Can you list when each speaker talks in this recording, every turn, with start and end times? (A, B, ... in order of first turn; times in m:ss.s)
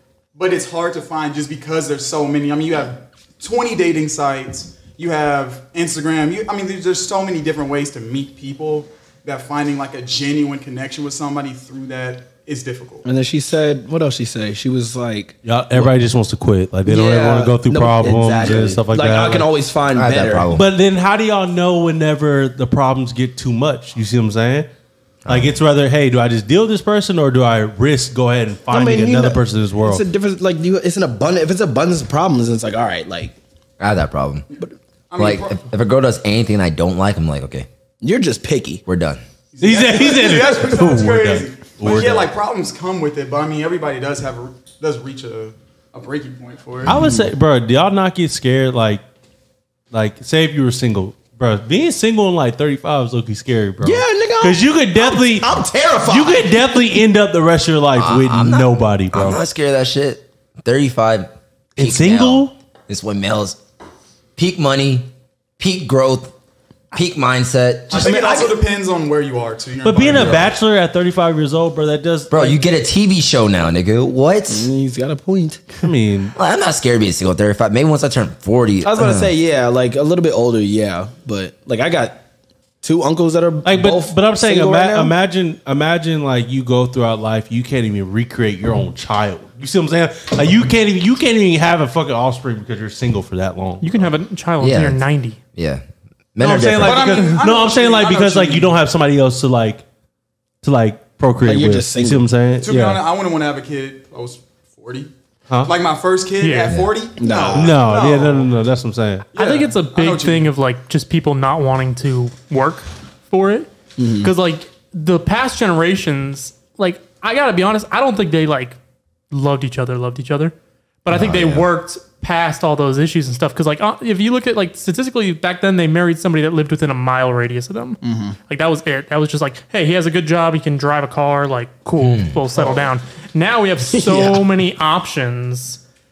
0:00.4-0:13.1 A
0:13.0-0:15.9 B
0:15.4-0:19.5 C
0:16.9-0:20.5 B
0:19.9-0:20.7 D
0:20.5-0:24.7 C
0:25.2-0:25.5 D
0:25.3-0:30.0 C
0:28.7-0:33.3 B
0:33.8-0:34.5 D
0:34.5-0:35.6 A
0:35.2-0:37.7 D
0:38.0-0:38.8 B
0:38.9-0:39.2 D
0:39.5-0:47.0 A
0:39.6-0:42.3 C
0:46.8-0:49.0 C
0:46.9-0:47.3 B
0:49.9-0:59.4 C
0:53.8-0:56.6 B
0:58.0-1:03.6 D
1:01.8-1:02.5 C
1:04.4-1:05.1 D
1:05.6-1:06.3 D
1:06.9-1:08.0 D
1:07.9-1:08.6 B
1:07.9-1:10.5 A
1:09.8-1:12.6 C
1:10.1-1:10.5 D
1:12.3-1:14.7 D
1:14.5-1:15.6 B
1:15.8-1:16.4 C
1:16.4-1:19.3 D
1:18.8-1:22.2 B
1:22.8-1:25.2 B
1:23.6-1:34.1 C
1:33.8-1:35.4 E
1:34.6-1:35.8 D
1:36.4-1:37.3 D
1:36.4-1:39.8 C
1:36.8-1:38.8 A
1:40.6-1:43.0 C
1:41.4-1:42.3 B
1:42.6-1:45.1 A
1:45.6-1:48.5 A
1:46.4-1:46.8 E
1:47.2-1:47.8 B
1:47.5-1:49.3 C
1:49.3-1:50.5 A
1:49.4-1:58.8 E
1:54.0-1:54.3 B
1:59.3-2:00.5 E
2:01.0-2:15.8 E
2:01.1-2:01.7 D
2:08.0-2:08.4 B
2:12.0-2:12.4 D
2:13.9-2:14.5 B